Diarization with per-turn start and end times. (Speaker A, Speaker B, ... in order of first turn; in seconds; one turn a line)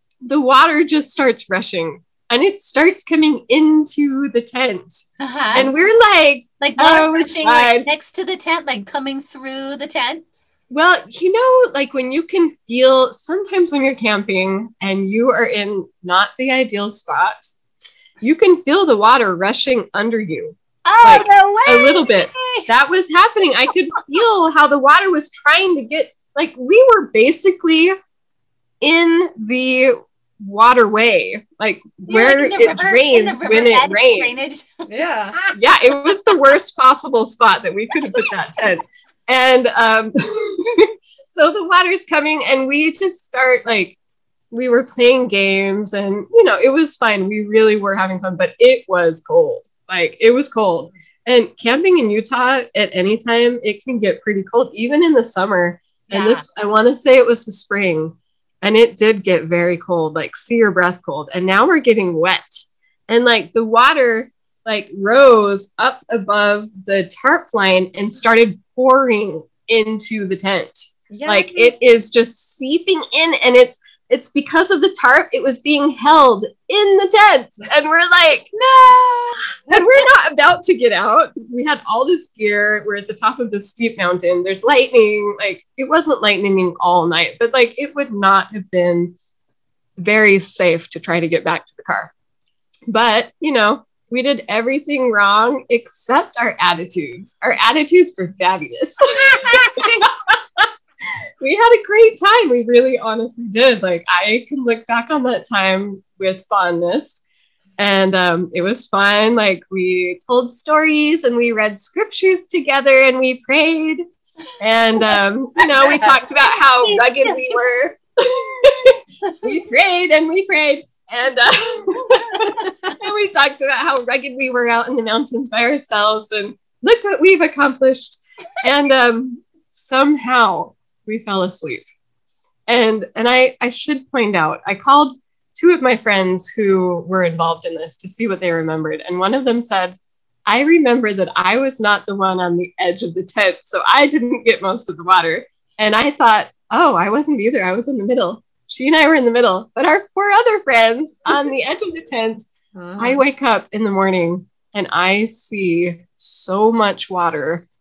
Speaker A: 0.2-7.9
Speaker B: 5.2-5.7
Speaker B: 6.6-10.2
Speaker A: 10.7-17.5
Speaker A: 18.2-27.9
Speaker B: 20.9-22.7
Speaker A: 28.8-34.3
Speaker B: 32.1-35.5
Speaker C: 34.9-35.4
Speaker A: 35.5-44.0
Speaker A: 44.5-78.5
Speaker B: 56.1-56.5
Speaker C: 71.1-71.7
Speaker C: 78.6-79.8
Speaker A: 79.6-89.1
Speaker A: 90.0-92.1
Speaker A: 92.9-100.7
Speaker B: 99.4-99.8
Speaker C: 99.8-100.0
Speaker A: 101.4-107.2
Speaker A: 107.8-114.0
Speaker A: 114.6-131.9
Speaker B: 116.8-117.3
Speaker A: 132.7-157.6
Speaker C: 152.7-153.2